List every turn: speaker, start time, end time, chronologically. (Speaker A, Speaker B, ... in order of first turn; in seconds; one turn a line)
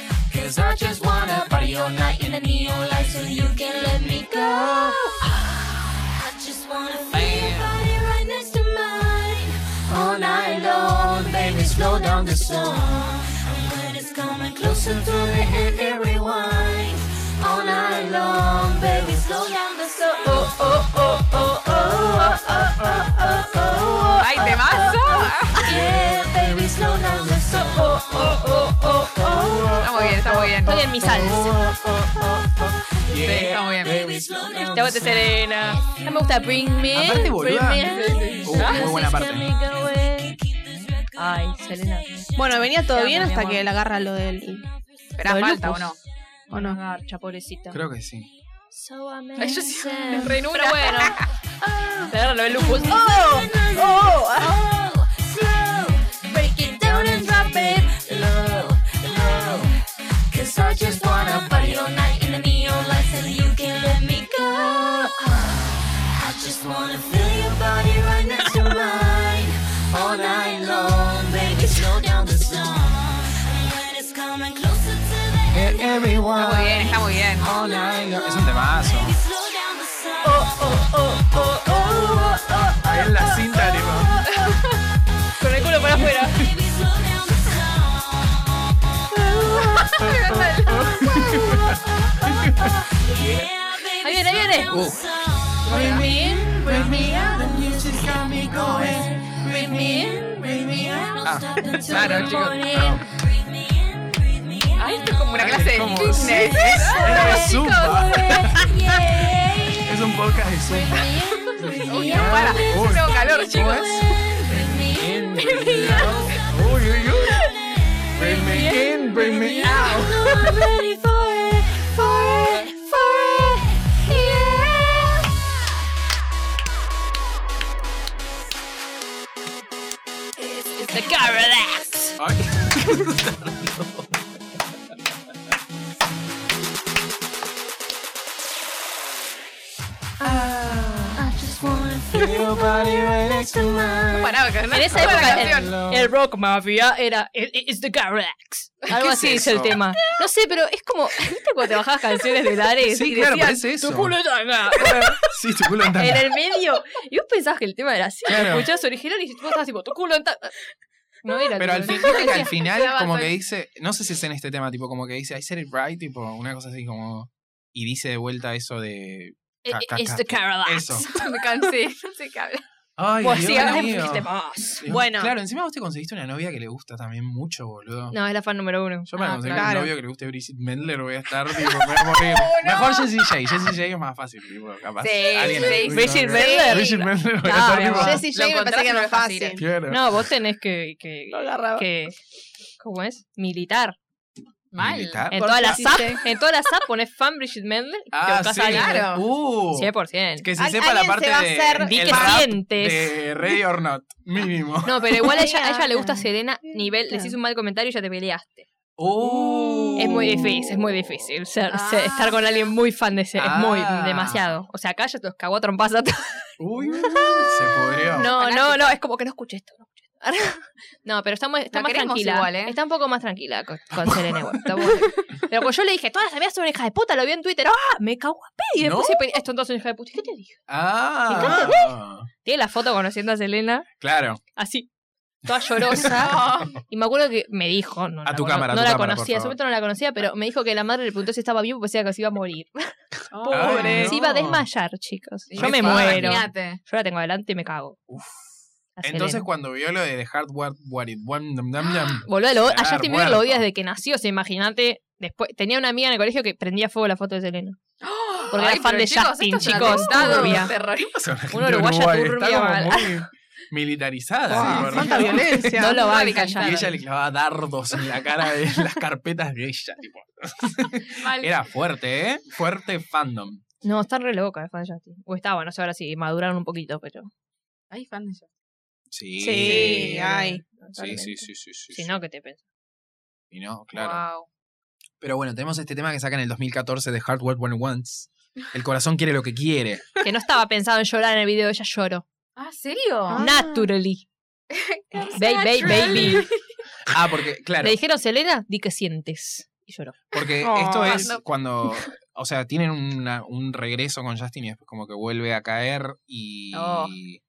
Speaker A: 0.3-5.5
Speaker A: 6.0-30.1
Speaker B: 7.1-7.8
Speaker B: 23.7-24.0
Speaker C: 24.2-25.7
Speaker B: 27.3-28.0
Speaker B: 29.4-30.5
Speaker C: 29.8-30.9
Speaker D: 30.6-31.5
Speaker B: 31.0-35.2
Speaker A: 31.2-32.2
Speaker C: 33.1-34.0
Speaker A: 33.8-35.3
Speaker D: 34.7-38.0
Speaker A: 35.8-41.5
Speaker B: 36.9-39.5
Speaker C: 37.8-38.8
Speaker D: 38.5-38.8
Speaker D: 41.2-42.1
Speaker E: 42.4-44.6
Speaker D: 42.8-43.6
Speaker C: 45.2-46.0
Speaker E: 45.2-45.9
Speaker E: 46.5-46.8
Speaker D: 46.5-47.8
Speaker B: 47.7-48.3
Speaker A: 48.7-50.4
Speaker C: 49.4-51.2
Speaker D: 50.3-51.2
Speaker A: 51.6-59.8
Speaker D: 52.1-53.1
Speaker E: 52.7-54.6
Speaker A: 60.3-76.2
Speaker B: 75.5-79.2
Speaker C: 76.3-77.5
Speaker A: 77.4-84.6
Speaker B: 82.8-84.2
Speaker D: 85.4-86.3
Speaker A: 85.6-88.4
Speaker A: 89.2-90.1
Speaker B: 89.2-93.5
Speaker C: 89.4-91.2
Speaker A: 90.8-105.2
Speaker D: 94.0-94.8
Speaker B: 94.7-95.0
Speaker C: 95.6-96.1
Speaker B: 95.7-103.0
Speaker C: 98.5-98.9
Speaker C: 101.9-102.4
Speaker C: 104.8-108.4
Speaker B: 105.4-117.4
Speaker A: 106.5-125.3
Speaker C: 111.9-113.9
Speaker D: 115.7-116.1
Speaker B: 118.1-120.1
Speaker D: 119.4-120.5
Speaker D: 124.1-124.5
Speaker D: 130.6-132.2
Speaker B: 132.2-134.1
Speaker A: 140.2-144.3
Speaker B: 140.2-144.0
Speaker C: 144.1-145.8
Speaker D: 144.7-155.3
Speaker A: 144.9-145.3
Speaker B: 144.9-146.1
Speaker B: 148.9-149.8
Speaker B: 152.9-154.2
Speaker B: 154.7-156.3
Speaker D: 155.8-160.5
Speaker B: 158.2-158.7
Speaker D: 161.2-162.5
Speaker B: 161.6-171.1
Speaker C: 161.9-163.3
Speaker D: 169.6-171.2
Speaker C: 171.0-172.6
Speaker B: 173.0-178.2
Speaker D: 173.2-174.8
Speaker E: 174.9-175.3
Speaker D: 178.1-179.1
Speaker B: 179.1-188.2
Speaker C: 179.2-179.8
Speaker E: 179.5-179.9
Speaker C: 182.2-183.1
Speaker C: 185.0-187.0
Speaker D: 185.6-188.3
Speaker E: 187.6-189.6
Speaker C: 188.2-189.6
Speaker B: 189.6-190.1
Speaker D: 189.9-192.2
Speaker E: 191.3-191.9
Speaker D: 192.8-193.9
Speaker C: 194.7-195.2
Speaker B: 194.8-195.8
Speaker D: 195.3-199.1
Speaker E: 195.3-196.2
Speaker B: 198.1-205.3
Speaker C: 198.6-199.2
Speaker D: 199.7-200.5
Speaker E: 200.6-202.4
Speaker D: 201.8-203.2
Speaker D: 204.8-208.7
Speaker E: 205.2-207.3
Speaker B: 209.0-210.6
Speaker E: 209.2-210.4
Speaker D: 210.0-217.5
Speaker C: 211.7-212.4
Speaker B: 213.3-214.5
Speaker B: 216.6-218.3
Speaker D: 218.1-230.6
Speaker C: 218.2-219.0
Speaker C: 221.7-222.8
Speaker B: 224.0-224.7
Speaker B: 228.8-229.3
Speaker B: 230.7-232.3
Speaker D: 231.3-233.9
Speaker E: 231.3-231.7
Speaker B: 234.0-234.4
Speaker D: 234.6-234.9
Speaker D: 235.4-248.0
Speaker B: 235.8-236.1
Speaker C: 236.0-236.8
Speaker B: 238.2-239.6
Speaker C: 243.3-244.1
Speaker E: 243.5-244.2
Speaker B: 243.5-244.6
Speaker C: 245.5-246.8
Speaker B: 245.6-246.4
Speaker B: 248.1-248.4
Speaker D: 249.0-249.4
Speaker B: 249.0-253.6
Speaker D: 252.2-257.8
Speaker C: 258.0-261.1
Speaker D: 258.5-260.7
Speaker E: 259.6-260.5
Speaker B: 260.1-265.8
Speaker D: 261.5-263.2
Speaker E: 264.5-266.4
Speaker C: 264.6-265.2
Speaker D: 264.8-265.1
Speaker D: 265.6-266.9
Speaker C: 265.8-267.0
Speaker B: 266.6-273.6
Speaker C: 271.1-271.5
Speaker D: 273.8-277.3
Speaker C: 277.9-278.5
Speaker B: 279.1-280.4
Speaker E: 279.4-280.6
Speaker D: 279.6-282.6
Speaker B: 280.9-282.1
Speaker B: 283.5-284.2
Speaker C: 283.9-284.5
Speaker B: 285.2-290.1
Speaker D: 290.2-292.2
Speaker C: 292.6-293.4
Speaker E: 293.3-293.9
Speaker D: 293.3-294.2
Speaker C: 294.7-296.5
Speaker D: 295.3-296.5
Speaker B: 297.1-298.0
Speaker D: 297.8-300.2
Speaker B: 300.3-307.4
Speaker E: 300.6-301.4
Speaker C: 301.0-301.4
Speaker C: 306.7-307.1